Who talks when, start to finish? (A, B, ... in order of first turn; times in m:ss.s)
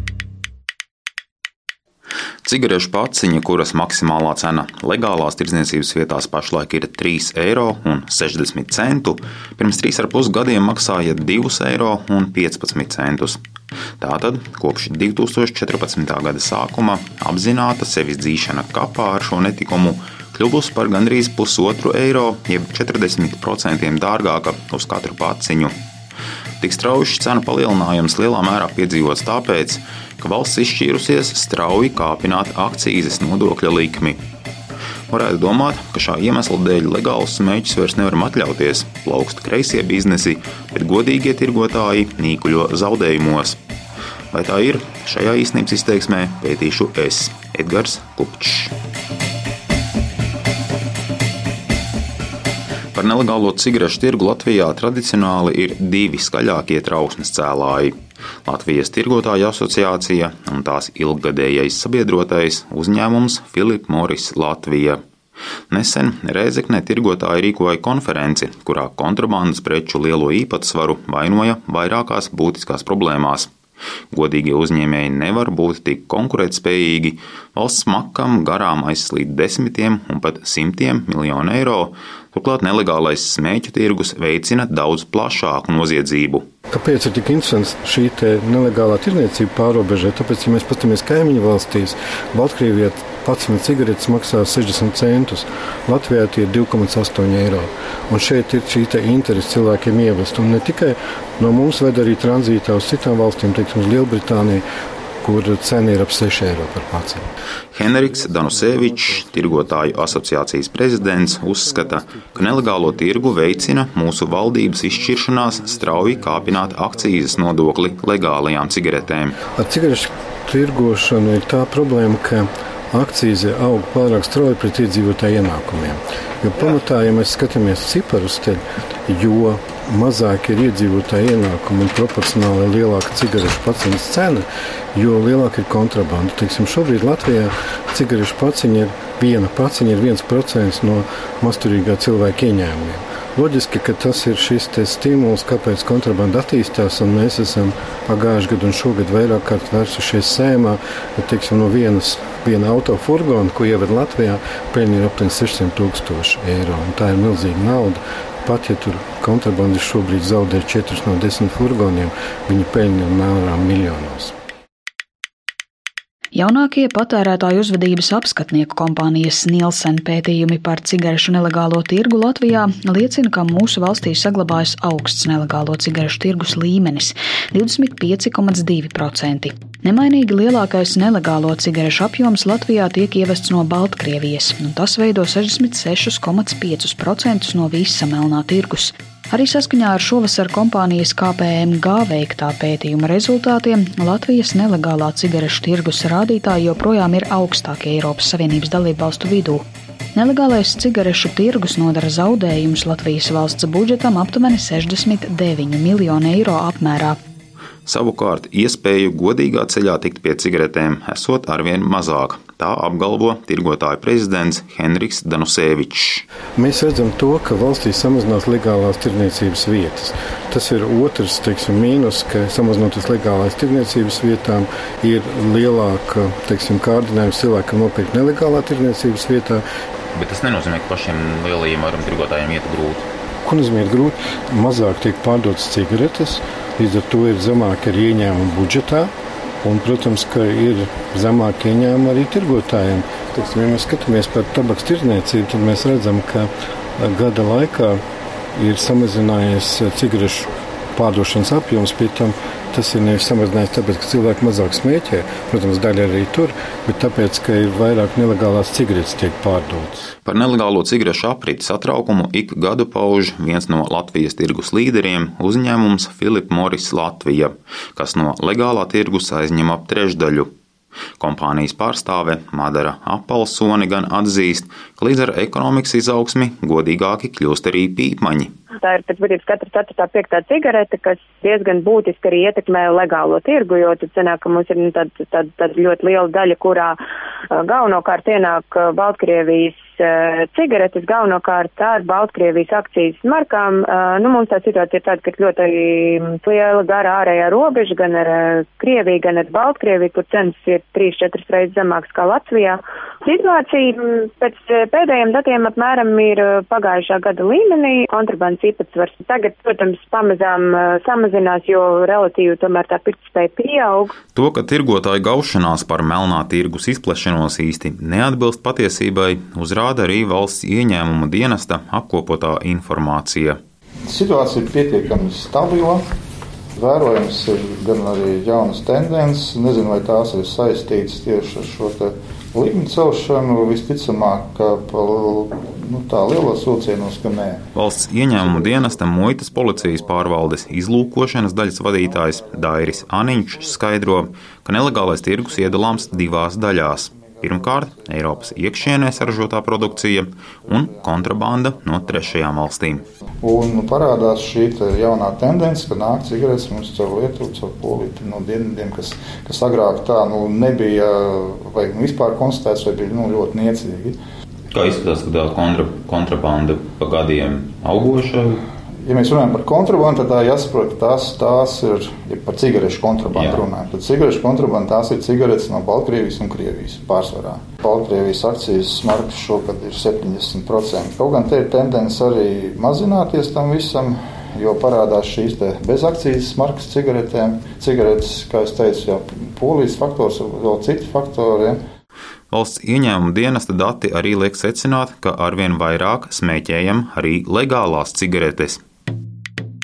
0:02.4-0:13.4 A
0:14.0-0:25.7 A
0:26.6-0:34.2 A
0:35.1-0:43.6 A
0:44.3-0:48.7 A
0:52.9-0:57.9 A
0:58.5-1:05.0 A
1:05.7-1:13.5 A
1:14.1-1:26.4 A
1:26.7-1:44.6 B
1:45.2-1:47.2 B
1:47.7-1:59.4 A
1:59.5-2:44.3 B
2:46.3-3:27.2 C
3:27.8-3:36.2 A
3:36.6-3:49.6 B
3:50.1-3:53.0 A
3:53.4-3:59.1 B
3:59.6-4:08.0 B
4:08.5-4:20.0 B
4:20.2-4:30.5 A
4:31.2-4:38.5 A
4:38.8-4:47.0 D
4:47.5-5:14.1 D
5:14.3-5:23.6 A
5:24.1-5:26.0 E
5:26.8-5:37.6 E
5:37.7-5:53.0 A
5:45.6-5:50.0 E
5:50.7-5:52.3 E
5:53.4-6:04.2 E
6:04.7-6:08.6 A
6:09.0-6:31.8 E
6:13.3-6:13.6 A
6:32.5-6:38.8 A